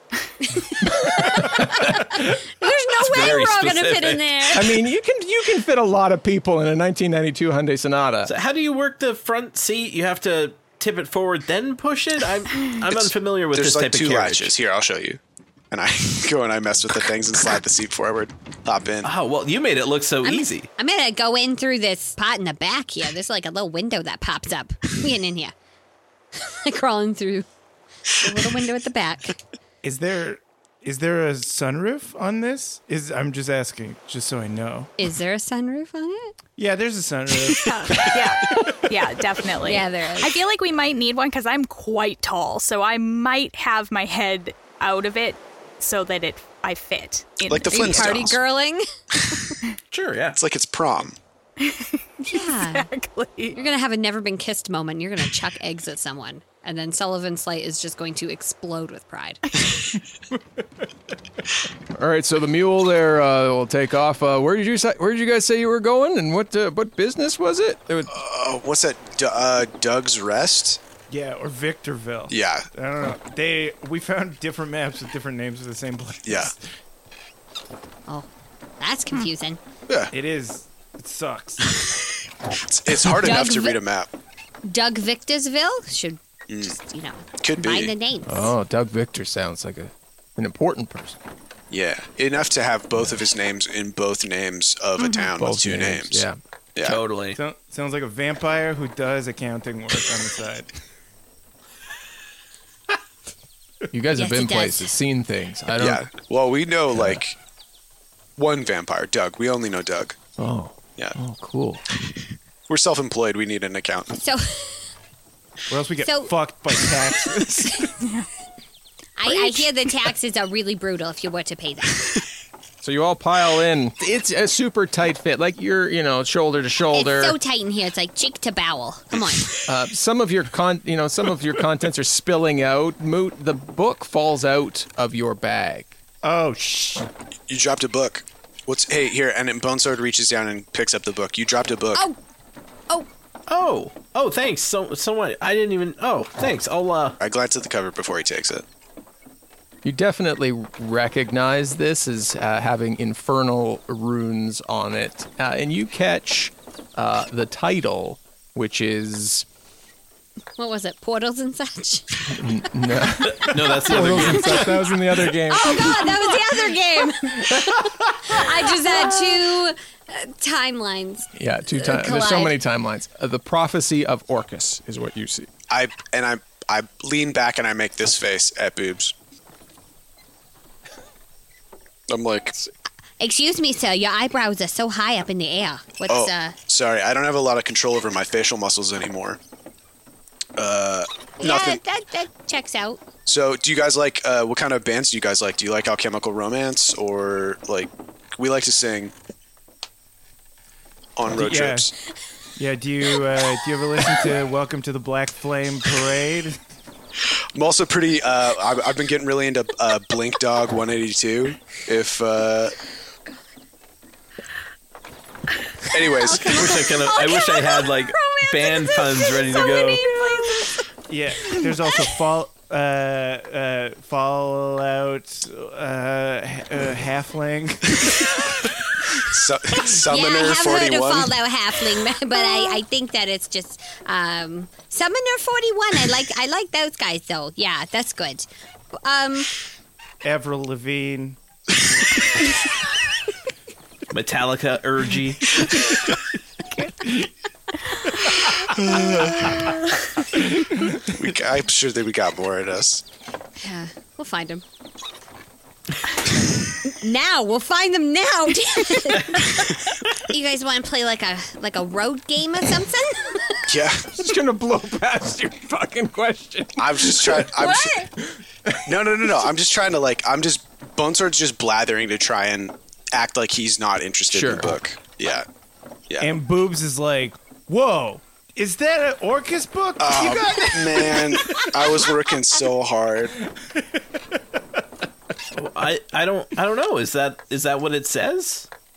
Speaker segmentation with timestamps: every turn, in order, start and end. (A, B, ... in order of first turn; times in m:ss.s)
0:00.8-0:04.8 A
0:02.9-0:04.5 B
0:04.5-0:08.3 C
0:08.2-0:14.5 B
0:12.8-0:15.2 D
0:15.7-0:19.1 D
0:19.0-0:20.7 B
0:20.2-0:25.5 A
0:26.4-0:27.4 A
0:28.2-0:29.4 A
0:29.8-0:34.9 E
0:35.0-0:36.3 A
0:36.6-0:38.1 E
0:37.5-0:48.3 F
0:39.6-0:40.4 A
0:47.4-0:48.4 D
0:47.7-0:48.8 A
0:49.9-0:50.4 B
0:50.4-0:51.2 D
0:51.6-0:53.6 F
0:52.3-0:52.9 A
0:53.5-0:59.6 A
1:01.9-1:08.1 C
1:08.1-1:10.8 D
1:11.1-1:16.5 E
1:12.3-1:12.7 D
1:16.2-1:16.5 D
1:18.8-1:19.6 A
1:20.1-1:21.8 E
1:22.6-1:24.1 D
1:23.1-1:23.8 A
1:24.6-1:28.5 A
1:26.5-1:26.7 D
1:27.4-1:27.9 D
1:28.2-1:31.2 C
1:31.7-1:36.2 D
1:35.3-1:36.4 C
1:36.8-1:37.0 D
1:36.8-1:37.4 B
1:37.4-1:40.7 E
1:43.9-1:46.0 C
1:44.1-1:44.9 A
1:45.8-1:47.3 D
1:46.9-1:47.2 C
1:48.4-1:50.2 D
1:50.4-1:51.8 C
1:52.7-1:54.2 D
1:54.2-1:54.8 A
1:55.7-1:57.9 E
1:56.0-1:56.3 A
1:58.0-1:58.3 F
1:59.2-2:02.2 A
1:59.3-1:59.7 F
2:02.8-2:07.4 C
2:06.9-2:09.6 A
2:09.1-2:09.6 D
2:09.7-2:16.0 C
2:16.2-2:17.1 E
2:17.5-2:22.0 D
2:23.5-2:27.2 B
2:27.2-2:28.6 D
2:29.8-2:39.4 C
2:40.6-2:42.4 A
2:42.3-2:46.3 C
2:43.3-2:44.8 B
2:44.2-2:44.7 A
2:45.5-2:52.5 A
2:51.4-2:55.5 C
2:55.7-2:59.1 D
3:02.1-3:02.5 D
3:03.2-3:06.6 A
3:06.1-3:09.4 D
3:10.6-3:11.8 D
3:11.4-3:13.0 A
3:13.2-3:19.1 D
3:21.2-3:21.9 D
3:21.3-3:21.9 E
3:22.6-3:26.6 E
3:27.5-3:32.8 D
3:35.9-3:36.8 D
3:36.1-3:40.8 A
3:36.5-3:40.0 B
3:41.1-3:48.1 E
3:49.2-3:51.3 D
3:50.1-3:58.5 A
3:59.0-3:59.5 A
4:00.2-4:01.4 E
4:04.1-4:05.7 B
4:06.7-4:07.0 F
4:08.8-4:09.7 D
4:09.1-4:09.7 A
4:11.1-4:13.0 D
4:13.6-4:14.6 A
4:16.8-4:19.8 A
4:20.3-4:23.6 A
4:23.7-4:24.1 D
4:24.1-4:27.7 C
4:26.8-4:28.0 D
4:27.6-4:28.1 A
4:28.6-4:28.9 C
4:28.8-4:35.5 D
4:34.3-4:34.8 C
4:36.1-4:36.3 D
4:36.2-4:42.0 E
4:40.0-4:43.3 D
4:45.6-4:48.7 B